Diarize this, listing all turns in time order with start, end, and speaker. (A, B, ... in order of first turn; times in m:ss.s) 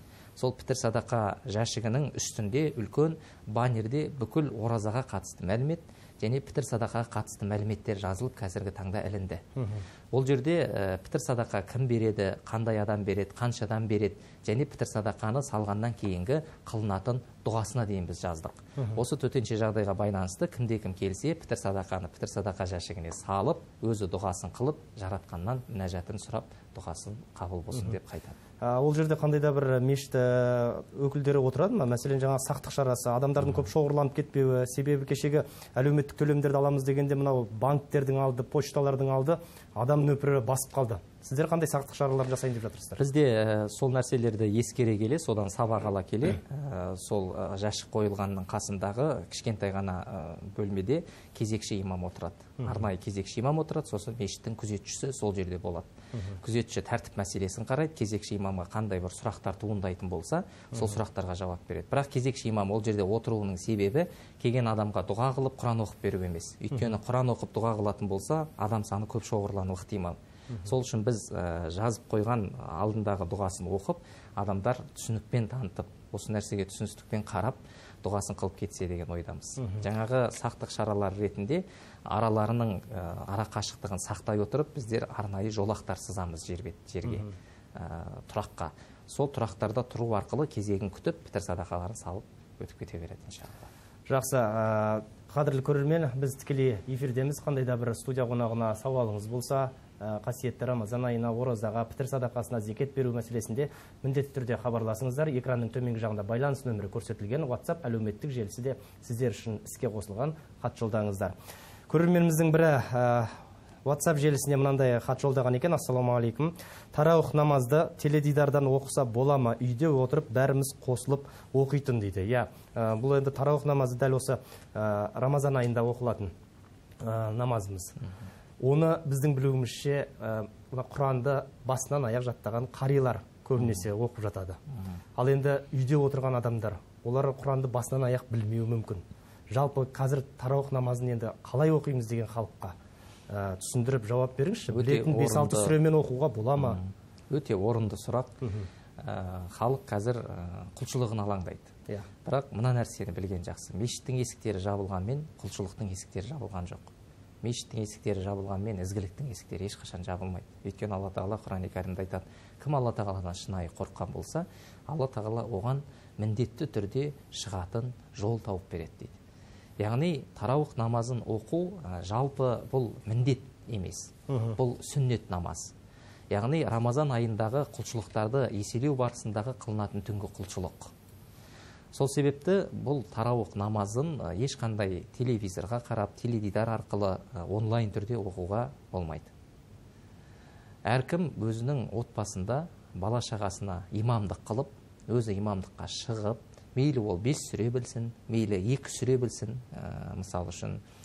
0:00.4-0:09.4 A
0:09.6-0:09.8 B
0:10.1-0:28.4 A
0:28.6-0:43.0 B
0:43.0-0:55.9 A
0:56.1-0:56.4 B
0:56.4-1:33.7 A
1:19.6-1:19.9 B
1:27.1-1:27.3 B
1:34.1-1:51.3 B
1:51.9-2:06.3 B
2:07.0-2:08.0 B
2:08.6-2:14.6 B
2:15.2-2:22.8 B
2:23.3-2:26.8 B
2:24.7-2:25.8 A
2:26.6-2:28.3 A
2:28.4-2:28.7 B
2:29.0-2:31.7 A
2:32.2-2:36.9 A
2:37.4-2:49.2 A
2:49.8-2:55.7 A
2:54.3-2:54.6 B
2:56.3-3:00.9 A
3:01.9-3:09.3 A
3:10.9-3:20.8 A